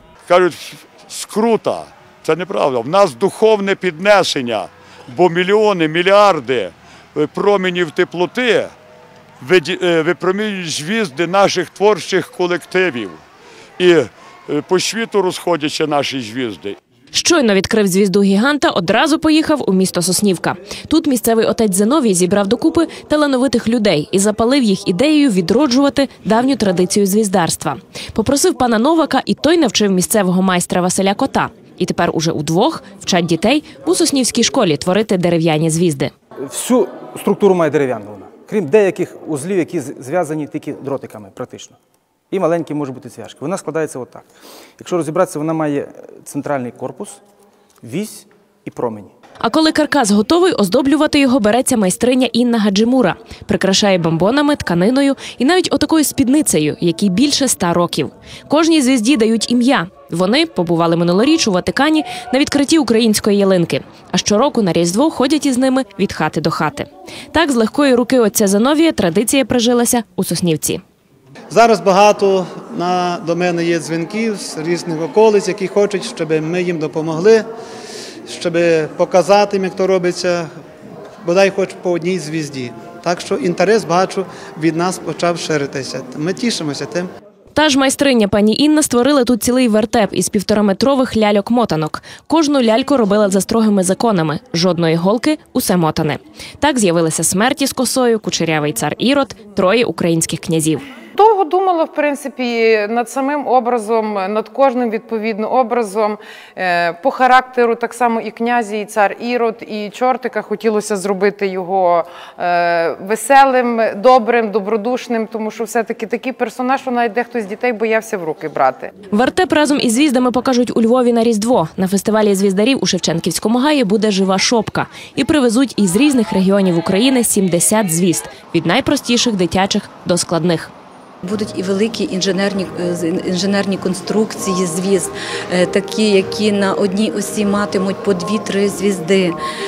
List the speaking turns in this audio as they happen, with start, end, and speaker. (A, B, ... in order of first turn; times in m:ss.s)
0:00.3-0:08.7 A
0:09.4-0:13.2 A
0:13.8-0:16.8 A
0:17.1-0:36.1 B
0:36.4-0:41.8 C
0:42.3-0:47.2 C
0:47.8-0:49.1 C
0:49.4-1:10.8 B
1:11.5-1:17.4 D
1:18.3-1:20.4 D
1:21.2-1:27.1 D
1:27.5-1:40.8 B
1:41.2-1:58.9 E
1:59.1-2:10.7 B
2:11.2-2:19.4 F